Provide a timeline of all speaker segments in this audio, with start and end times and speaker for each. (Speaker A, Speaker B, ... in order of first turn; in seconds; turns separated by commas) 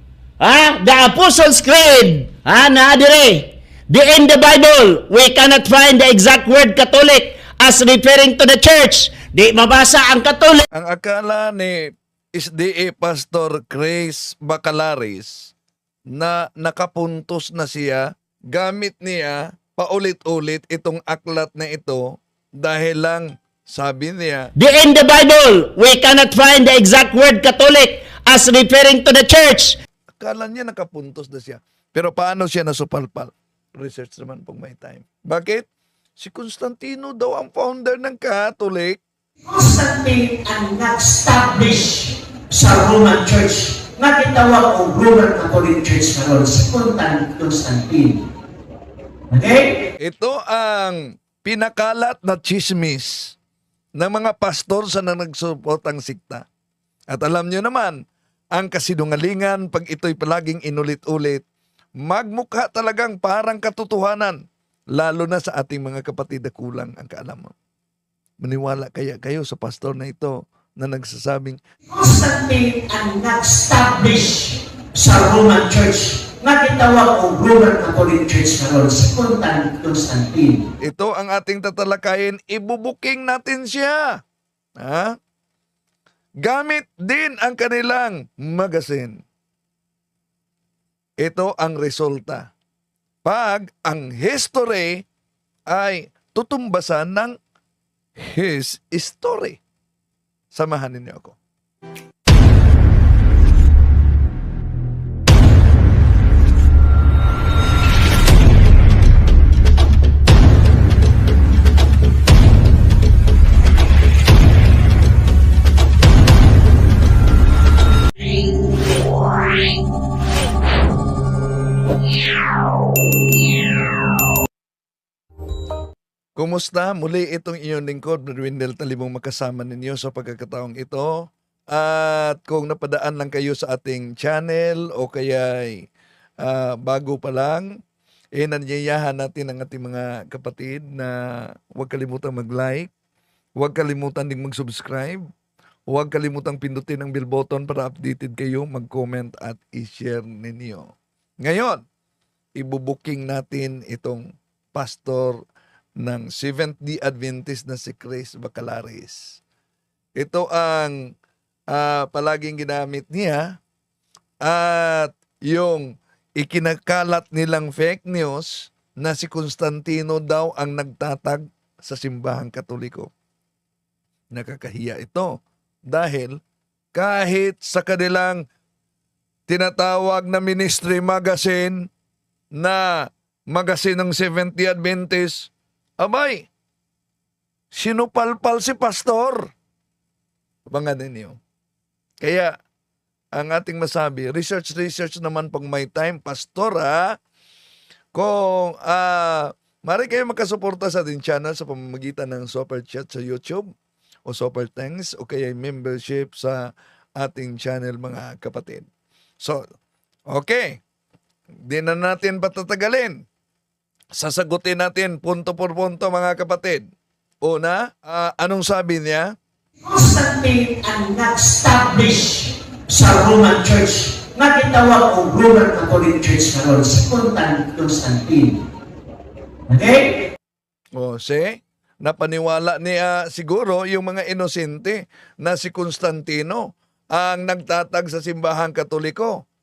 Speaker A: 0.4-10.6, Speaker B: 10.7-15.5, Speaker B: 16.1-24.5, Speaker A: 24.6-29.8, Speaker B: 30.2-35.7, Speaker B: 36.2-39.0, Speaker C: 39.5-48.2, Speaker C: 49.3-49.8, Speaker B: 50.0-53.4, Speaker B: 54.0-56.4, Speaker B: 57.1-58.0, Speaker B: 58.5-61.4, Speaker B: 62.0-64.4, Speaker B: 64.9-67.5, Speaker B: 68.4-71.6, Speaker C: 71.9-80.6, Speaker B: 80.8-84.2, Speaker B: 84.8-85.2, Speaker B: 86.4-89.2, Speaker B: 91.2-92.5, Speaker B: 93.2-95.0, Speaker B: 95.7-97.4, Speaker B: 98.2-99.6, Speaker B: 100.5-101.4, Speaker B: 126.3-135.9, Speaker B: 136.4-137.7, Speaker B: 138.3-142.9, Speaker B: 143.6-145.2, Speaker B: 145.9-151.8, Speaker B: 152.6-155.4, Speaker B: 156.0-159.4, Speaker B: 160.2-161.1, Speaker B: 161.7-163.6, Speaker B: 164.4-173.1, Speaker B: 174.3-176.4, Speaker B: 176.9-178.4, Speaker B: 179.5-181.9, Speaker B: 182.6-186.5, Speaker B: 187.7-189.5, Speaker B: 190.7-191.4, Speaker B: 192.2-192.5, Speaker B: 193.3-197.2, Speaker B: 198.1-203.7, Speaker B: 204.2-208.9, Speaker B: 210.3-210.8, Speaker B: 211.7-213.2, Speaker B: 214.1-216.8, Speaker B: 217.4-219.3, Speaker C: 219.8-228.6, Speaker C: 229.7-230.1, Speaker B: 230.9-239.4